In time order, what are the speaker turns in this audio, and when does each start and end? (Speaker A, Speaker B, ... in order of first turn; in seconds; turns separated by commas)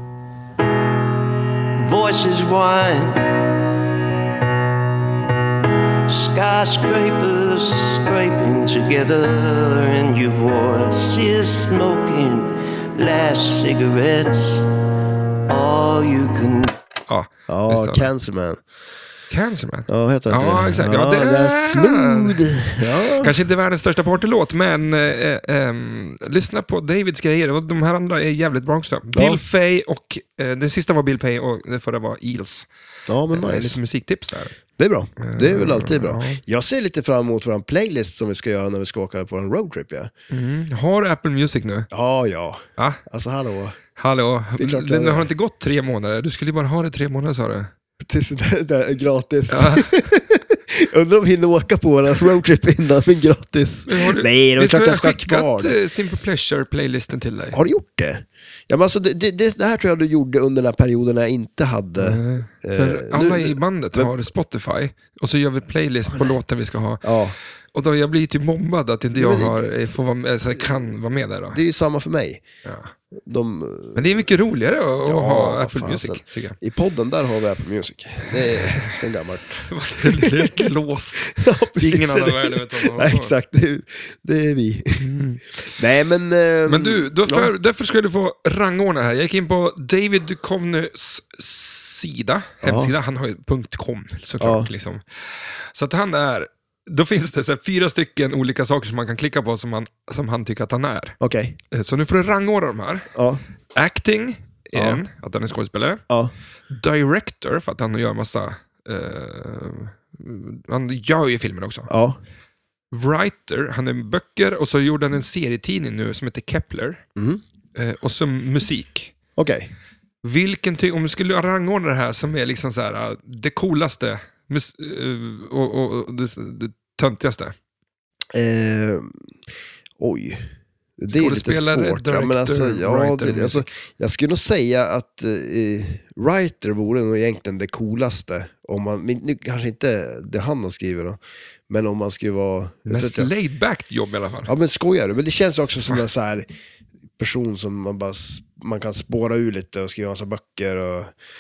Speaker A: 1.8-3.4, Speaker A: 6.1-14.7, Speaker A: 15.5-16.7, Speaker B: 17.1-18.1, Speaker C: 17.5-18.6, Speaker B: 19.3-22.4, Speaker C: 19.9-23.3, Speaker B: 23.1-32.7, Speaker C: 29.1-29.4, Speaker C: 33.1-33.8, Speaker B: 33.3-34.6, Speaker C: 34.8-40.1, Speaker B: 35.2-36.4, Speaker B: 40.3-41.9, Speaker C: 41.9-43.8, Speaker B: 44.0-47.7, Speaker C: 44.6-45.3, Speaker C: 48.0-55.8, Speaker B: 49.5-50.0, Speaker B: 53.9-57.6, Speaker C: 57.5-64.1, Speaker B: 62.0-67.1, Speaker C: 67.0-67.4, Speaker B: 67.7-71.6, Speaker C: 69.1-69.7, Speaker C: 71.5-72.4, Speaker B: 72.7-72.9, Speaker C: 73.2-74.2, Speaker B: 74.0-76.6, Speaker C: 75.0-80.7, Speaker B: 78.3-79.0, Speaker B: 79.5-83.3, Speaker C: 81.3-85.1, Speaker B: 85.0-85.6, Speaker C: 85.7-87.5, Speaker B: 86.7-101.2, Speaker C: 92.6-92.9, Speaker C: 94.4-94.7, Speaker C: 101.2-101.6, Speaker B: 101.7-103.1, Speaker C: 103.1-103.4, Speaker B: 103.8-106.0, Speaker C: 104.8-105.0, Speaker B: 106.7-111.9, Speaker C: 111.9-112.2, Speaker B: 112.9-117.0, Speaker C: 117.2-117.4, Speaker B: 117.8-119.1, Speaker C: 119.4-119.7, Speaker B: 120.2-127.5, Speaker C: 128.3-129.2, Speaker C: 130.0-143.3, Speaker B: 131.1-133.7, Speaker B: 142.9-144.5, Speaker C: 144.5-146.5, Speaker C: 147.2-151.1